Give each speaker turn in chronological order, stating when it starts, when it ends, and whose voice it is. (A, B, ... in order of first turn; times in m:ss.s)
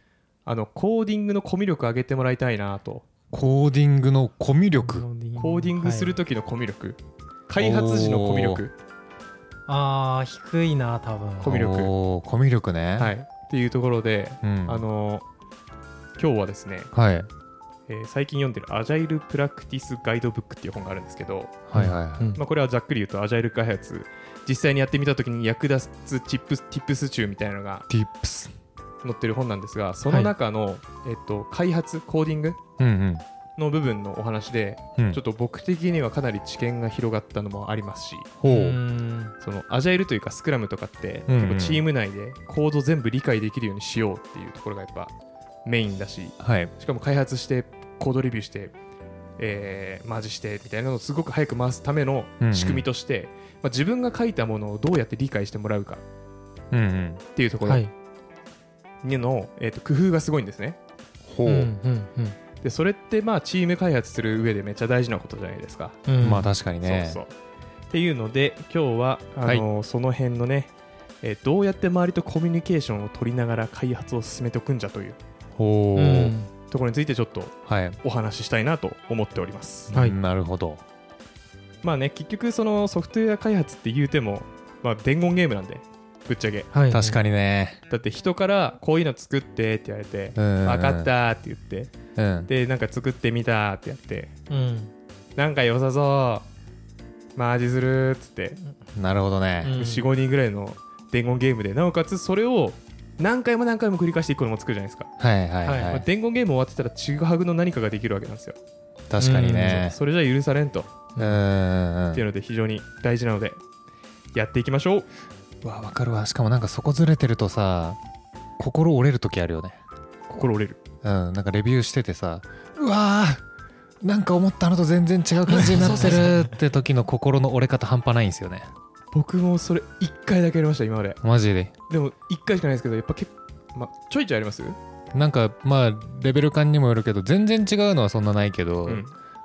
0:00.4-0:03.0 A
0:03.3-0:05.1 B
0:04.8-0:06.2 C
0:05.4-0:08.7 A
0:07.6-0:08.6 B
0:09.7-0:11.6 C
0:11.4-0:11.9 A
0:11.4-0:13.1 B
0:13.0-0:15.2 A
0:14.4-0:14.8 B
0:16.2-0:16.9 A
0:16.9-0:17.3 B
0:17.9-0:21.6 A
0:21.7-0:22.3 B
0:21.7-0:22.4 C
0:22.3-0:27.9 A
0:27.9-0:28.5 B
0:29.0-0:32.6 A
0:32.8-0:33.2 B
0:33.6-0:38.3 A
0:38.4-0:38.8 B
0:38.4-0:39.3 C
0:39.4-0:45.1 A
0:41.3-0:41.8 B
0:45.6-0:48.7 A
0:46.4-0:46.7 B
0:49.4-0:56.0 A
0:52.4-0:52.8 B
0:56.7-0:57.2 B
0:57.3-0:57.8 A
0:57.6-0:57.9 C
0:59.0-1:00.8 A
1:01.2-1:01.7 B
1:01.4-1:02.4 C
1:02.6-1:06.0 A
1:06.1-1:06.5 C
1:06.2-1:07.2 B
1:06.8-1:07.3 A
1:07.9-1:10.7 A
1:11.2-1:15.2 A
1:15.6-1:16.3 B
1:16.0-1:16.5 C
1:16.7-1:19.9 A
1:17.6-1:18.0 B
1:19.9-1:20.2 C
1:19.9-1:20.8 B
1:21.8-1:26.7 A
1:26.7-1:27.2 C
1:26.9-1:27.8 B
1:27.9-1:31.9 A
1:30.4-1:31.1 B
1:32.2-1:32.5 B
1:32.5-1:34.3 A
1:34.5-1:34.9 C
1:35.4-1:36.4 A
1:37.4-1:38.6 A
1:39.0-1:39.8 B
1:39.6-1:40.1 C
1:39.7-1:45.1 A
1:45.2-1:46.0 B
1:45.6-1:46.0 C
1:45.9-1:48.6 A
1:49.1-1:50.0 B
1:49.2-1:49.9 C
1:49.9-1:50.9 A
1:51.1-1:51.4 C
1:51.2-1:52.2 B
1:52.1-1:53.6 A
1:54.3-1:55.1 A
1:55.6-1:58.0 B
1:58.6-1:59.8 B
2:00.3-2:00.8 A
2:01.0-2:03.4 B
2:04.0-2:08.7 B
2:05.5-2:06.4 C
2:09.1-2:11.2 A
2:11.2-2:11.7 B
2:11.9-2:14.8 A
2:15.1-2:19.1 B
2:18.8-2:19.1 A